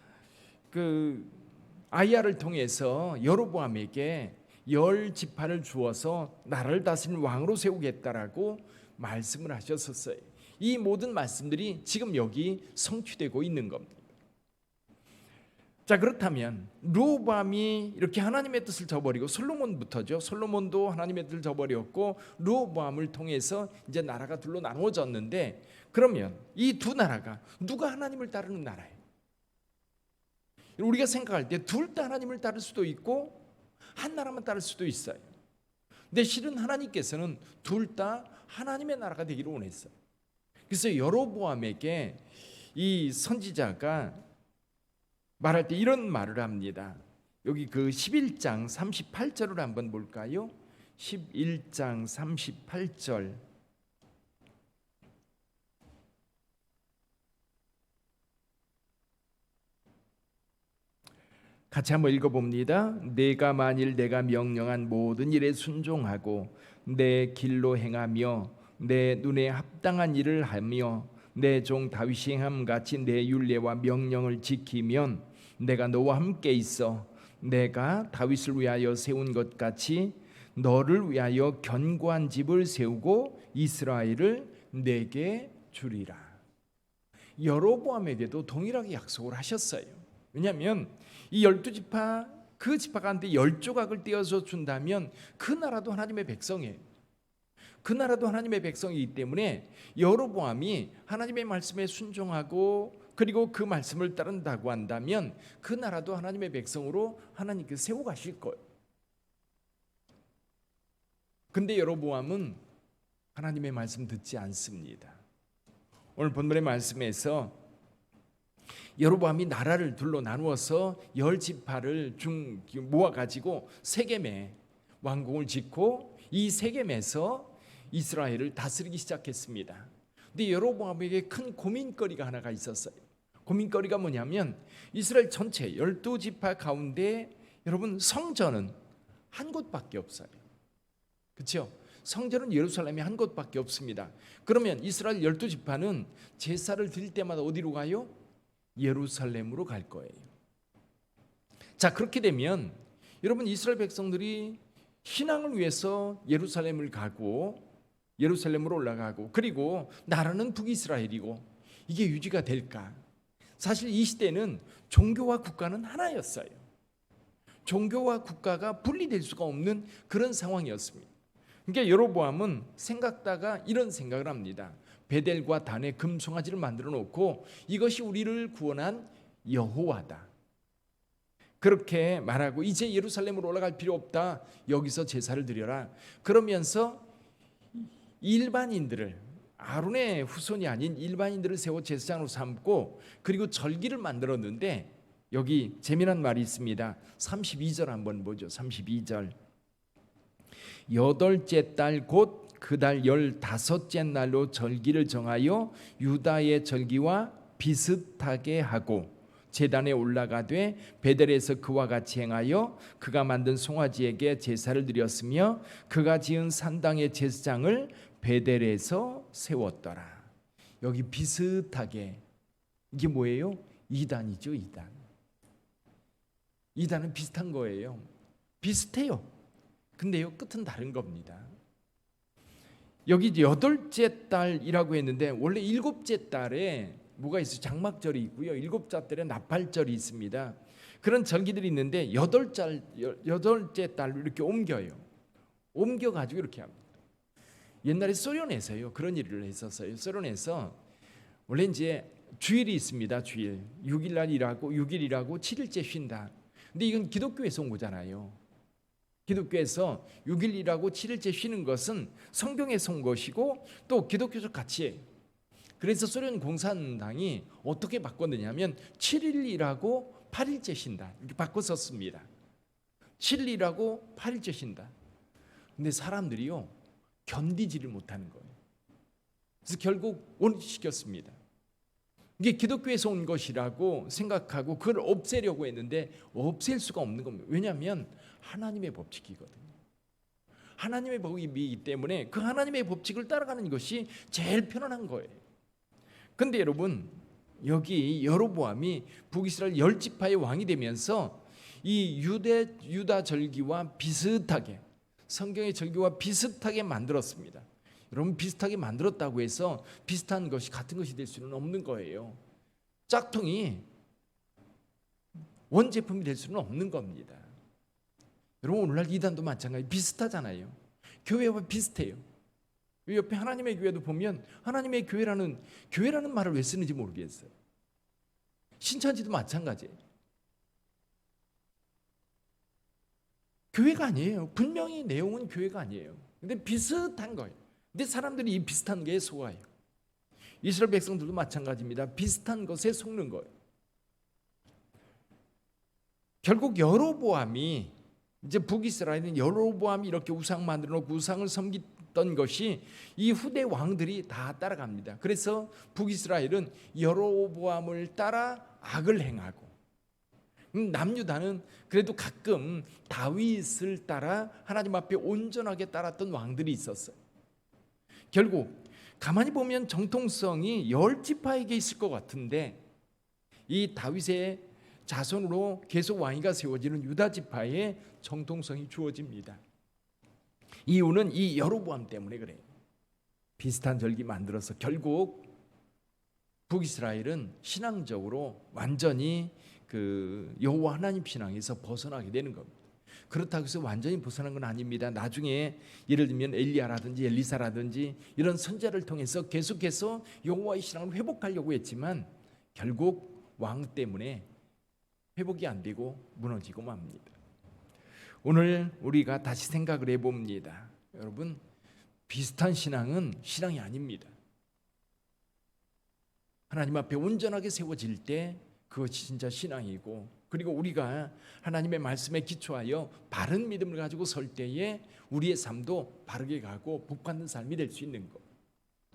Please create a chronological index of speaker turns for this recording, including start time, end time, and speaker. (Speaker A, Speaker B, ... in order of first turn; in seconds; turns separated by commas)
Speaker A: 0.7-14.1, Speaker A: 15.8-29.0, Speaker A: 30.8-33.4, Speaker A: 33.9-35.2, Speaker A: 36.1-39.9, Speaker A: 40.7-44.2, Speaker A: 45.4-53.4, Speaker A: 61.7-86.4, Speaker A: 87.4-96.8, Speaker A: 97.8-108.6, Speaker A: 111.5-112.6, Speaker A: 113.3-115.2, Speaker A: 116.2-117.6, Speaker A: 119.0-138.7, Speaker A: 139.3-140.4, Speaker A: 141.3-148.1, Speaker A: 148.7-150.3, Speaker A: 151.8-157.6, Speaker A: 158.2-163.0, Speaker A: 163.6-166.6, Speaker A: 167.6-171.1, Speaker A: 171.7-180.3, Speaker A: 181.6-187.1, Speaker A: 187.8-199.3, Speaker A: 200.9-220.3, Speaker A: 220.8-222.2, Speaker A: 222.9-224.9, Speaker A: 226.7-228.1, Speaker A: 228.6-229.3, Speaker A: 230.0-231.5, Speaker A: 233.1-245.0, Speaker A: 245.7-246.8, Speaker A: 247.8-250.8, Speaker A: 251.5-258.4, Speaker A: 259.3-265.0, Speaker A: 265.8-272.3, Speaker A: 273.2-274.9, Speaker A: 275.8-276.7, Speaker A: 277.2-278.5, Speaker A: 279.6-281.4, Speaker A: 282.4-289.7, Speaker A: 290.8-295.4, Speaker A: 296.4-312.4, Speaker A: 313.1-313.9, Speaker A: 315.7-317.5, Speaker A: 318.6-322.2, Speaker A: 323.1-327.5, Speaker A: 328.8-329.9, Speaker A: 333.7-339.6, Speaker A: 340.6-343.5, Speaker A: 346.4-359.7, Speaker A: 360.7-367.1, Speaker A: 368.3-372.8, Speaker A: 373.7-379.6, Speaker A: 380.9-382.6, Speaker A: 383.6-385.5, Speaker A: 386.7-392.7, Speaker A: 393.3-404.4, Speaker A: 405.4-407.3, Speaker A: 408.4-411.6, Speaker A: 412.3-414.3, Speaker A: 416.7-428.4